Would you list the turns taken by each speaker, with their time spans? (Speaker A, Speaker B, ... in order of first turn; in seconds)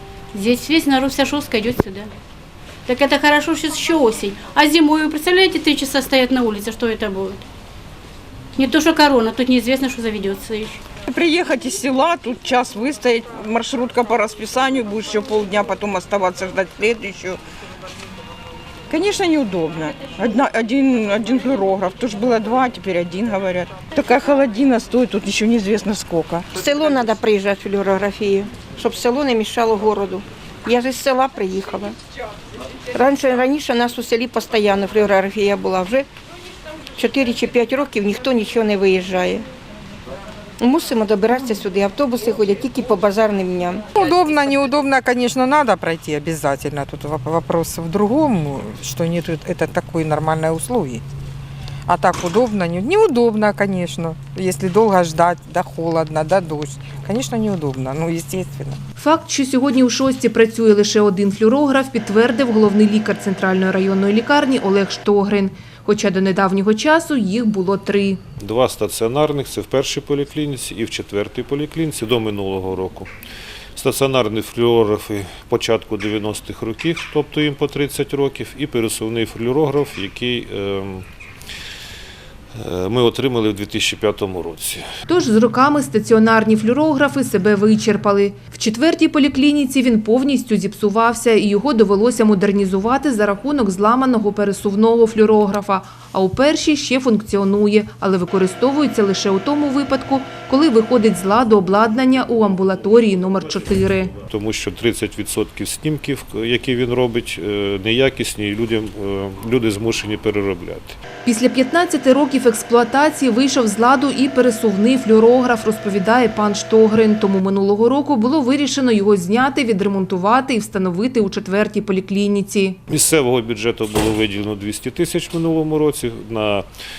Speaker A: 0.3-2.1, 2.9-7.4, 8.6-10.8
Speaker B: 11.1-17.4, 18.9-26.5
Speaker C: 26.6-32.0, 32.9-36.1, 37.0-39.5, 40.6-43.9
Speaker D: 44.0-51.0, 51.9-58.8
Speaker E: 59.0-68.2, 85.1-104.2, 111.2-122.8
Speaker F: 68.4-73.1, 73.8-81.0, 82.6-84.9, 104.3-111.0, 122.9-126.7